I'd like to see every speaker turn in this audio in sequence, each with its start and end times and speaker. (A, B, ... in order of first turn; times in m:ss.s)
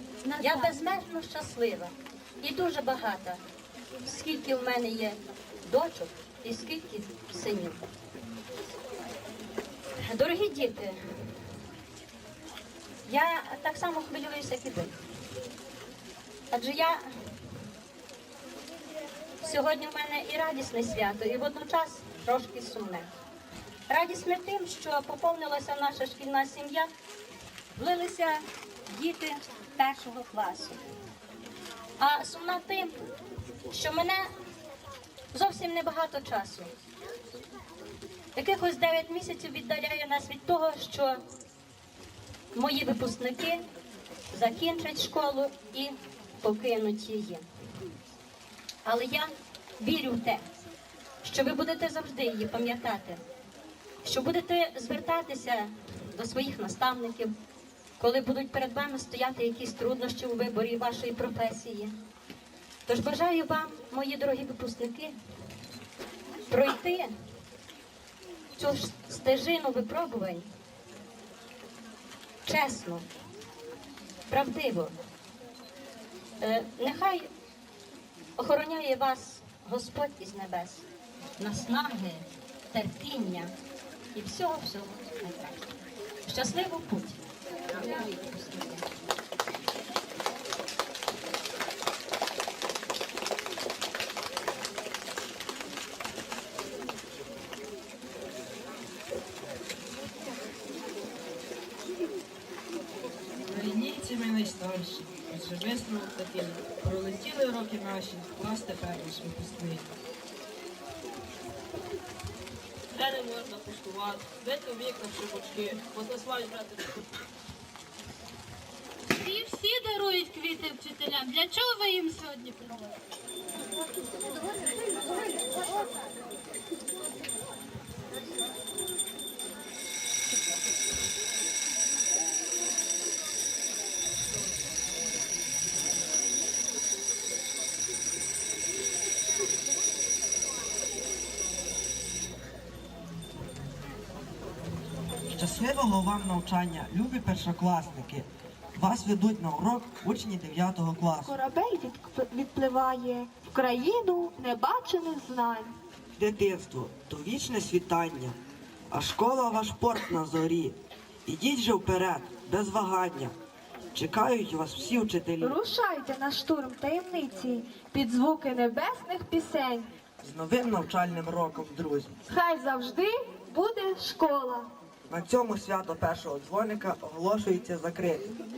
0:00.3-0:03.4 A
0:00.4-0:00.7 B
0:04.0-0:07.8 A
0:10.0-0:11.0 A
0:13.1-0:14.9 A
0:16.5-0:17.0 A
0:19.4-0:23.1 A
0:23.9-0:26.9 A
0:27.8-0:30.8 A
0:32.0-0:32.9 A
0:33.7-0:34.2 A
0:35.3-0:36.7 A
0:38.4-0:41.2 A
0:42.6-0:43.6 A
0:44.3-0:47.4 A
0:48.8-0:50.4 A
0:51.2-0:53.2 A
0:54.0-0:57.3 A
0:58.0-1:01.9 A
1:02.9-1:05.2 A
1:06.5-1:07.1 A
1:08.6-1:10.5 A
1:12.5-1:13.0 A
1:14.3-1:14.9 A
1:16.4-1:17.3 A
1:18.4-1:20.8 A
1:21.4-1:23.5 A
1:24.2-1:25.6 A
1:26.3-1:27.2 A
1:27.8-1:28.8 A
1:44.3-1:44.8 C
1:45.9-1:46.7 D
1:47.6-1:49.6 C
1:52.9-1:57.0 D
1:59.1-2:02.9 B
2:25.3-2:31.3 E
2:31.2-2:35.7 F
2:36.2-2:38.4 E
2:38.9-2:43.3 E
2:43.9-2:45.6 E
2:45.4-2:49.9 F
2:50.2-2:52.2 E
2:52.3-2:54.7 F
2:55.1-2:58.4 E